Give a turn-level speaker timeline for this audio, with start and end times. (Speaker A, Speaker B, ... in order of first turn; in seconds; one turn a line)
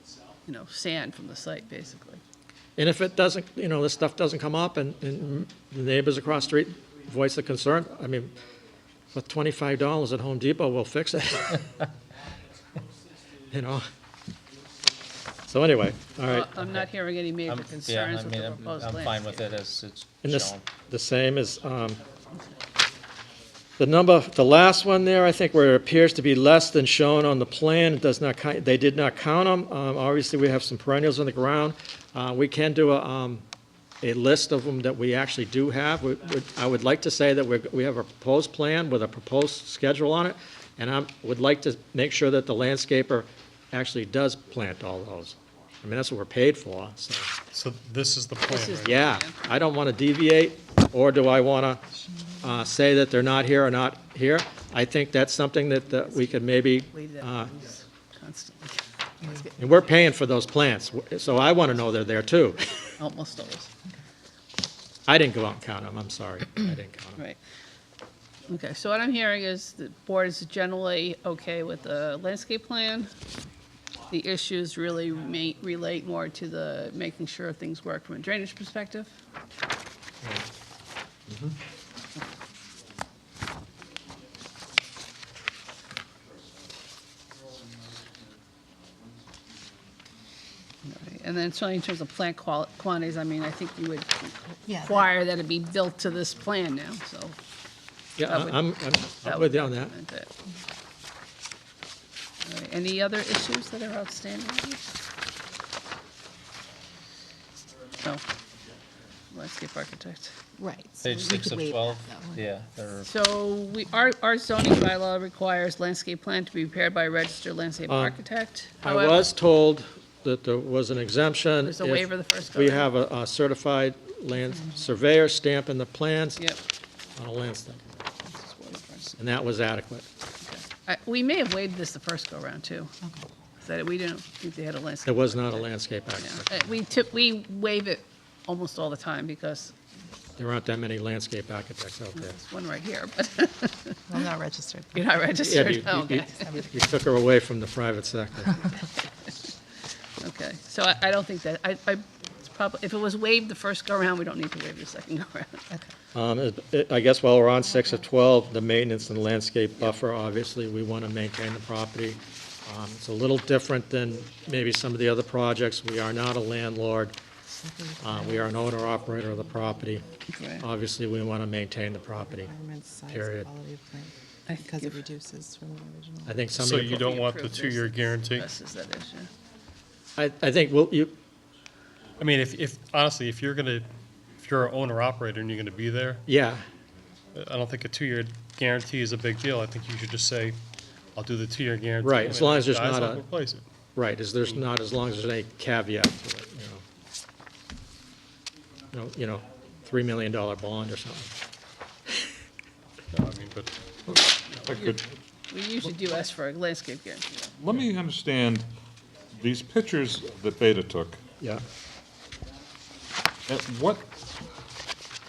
Speaker A: 0.5-2.2
Speaker B: 2.8-8.3
Speaker B: 9.1-11.6
Speaker B: 13.5-13.9
Speaker B: 15.5-16.5
Speaker A: 16.2-19.4
Speaker C: 16.6-16.9
Speaker C: 17.5-20.6
Speaker B: 20.2-22.0
Speaker B: 23.8-33.4
Speaker B: 34.0-47.3
Speaker D: 47.5-49.0
Speaker A: 48.5-49.4
Speaker B: 48.8-51.8
Speaker B: 52.4-57.7
Speaker A: 56.9-59.5
Speaker B: 59.5-62.9
Speaker A: 63.0-63.7
Speaker B: 65.1-67.2
Speaker A: 68.5-73.1
Speaker A: 74.1-79.1
Speaker A: 90.8-97.4
Speaker E: 94.7-95.0
Speaker B: 98.2-99.9
Speaker A: 98.2-98.6
Speaker A: 99.2-100.3
Speaker A: 102.4-104.8
Speaker A: 109.3-110.3
Speaker E: 110.6-112.4
Speaker C: 111.0-113.1
Speaker A: 113.0-119.3
Speaker B: 117.9-118.2
Speaker B: 118.8-126.4
Speaker A: 121.6-122.9
Speaker B: 127.2-127.8
Speaker A: 128.2-129.2
Speaker B: 129.2-130.1
Speaker A: 130.4-132.9
Speaker A: 133.6-135.7
Speaker B: 135.0-136.7
Speaker A: 136.2-139.7
Speaker B: 140.4-142.3
Speaker A: 142.1-144.2
Speaker E: 144.1-145.1
Speaker A: 144.9-146.6
Speaker B: 145.4-148.6
Speaker E: 146.4-146.8
Speaker A: 148.7-149.5
Speaker A: 150.2-155.6
Speaker B: 156.1-167.2
Speaker E: 167.5-168.5
Speaker B: 168.0-170.0
Speaker A: 170.3-170.6
Speaker B: 170.6-172.5
Speaker E: 172.3-176.4
Speaker B: 173.1-173.5
Speaker A: 174.5-175.0
Speaker B: 176.2-177.1
Speaker D: 176.5-178.5
Speaker A: 176.7-179.3
Speaker B: 180.2-181.2
Speaker D: 182.2-186.2
Speaker B: 186.2-186.6
Speaker D: 187.3-190.6
Speaker D: 191.2-193.6
Speaker B: 192.0-193.2
Speaker B: 193.9-196.8
Speaker B: 198.9-201.3
Speaker D: 203.1-203.7
Speaker F: 204.1-205.1
Speaker A: 204.7-207.5
Speaker F: 207.6-208.7
Speaker F: 209.4-211.2
Speaker B: 211.4-211.6
Speaker F: 213.5-214.1